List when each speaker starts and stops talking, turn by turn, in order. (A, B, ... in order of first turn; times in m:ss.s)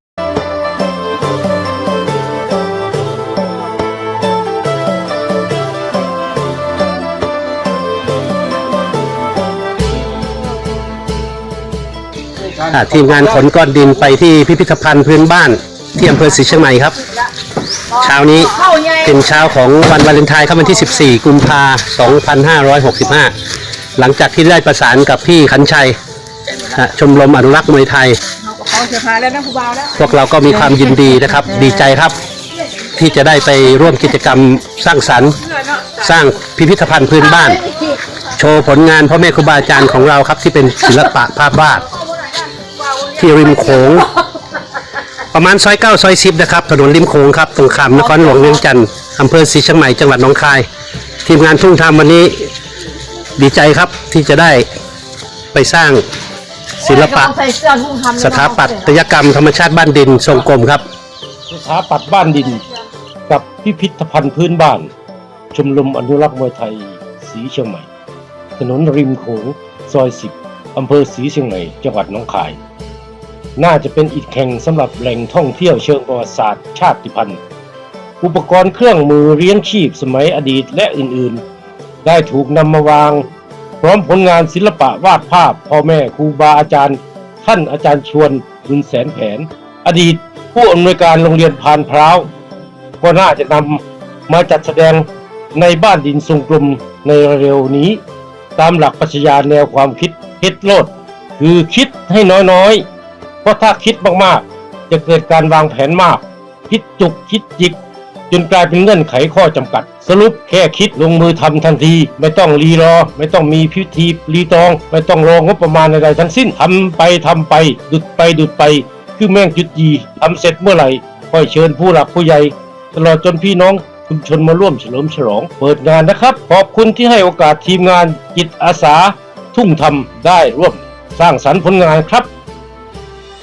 0:12.6-0:17.0 A
0:18.0-0:23.3 A
0:18.0-0:19.2 B
0:24.0-0:26.0 A
0:26.7-0:28.2 A
0:28.4-0:30.0 B
0:30.0-0:32.2 A
0:33.0-0:35.4 A
0:35.7-0:35.9 B
0:36.0-0:37.6 A
0:37.4-0:38.0 B
0:38.3-0:41.9 A
0:42.0-0:43.8 B
0:43.1-0:44.1 A
0:45.3-0:50.6 A
0:51.2-0:52.4 A
0:53.4-0:54.7 A
0:55.5-0:56.0 A
0:56.8-0:57.4 A
0:56.9-0:58.9 B
0:58.2-1:00.8 A
1:01.5-1:02.6 C
1:03.3-1:04.9 C
1:05.5-1:07.9 C
1:08.6-1:12.6 C
1:13.6-1:17.4 C
1:18.2-1:21.4 C
1:22.0-1:23.3 C
1:23.8-1:32.3 C
1:33.0-1:38.0 C
1:38.6-1:42.8 C
1:43.4-1:47.8 C
1:48.3-2:12.3 C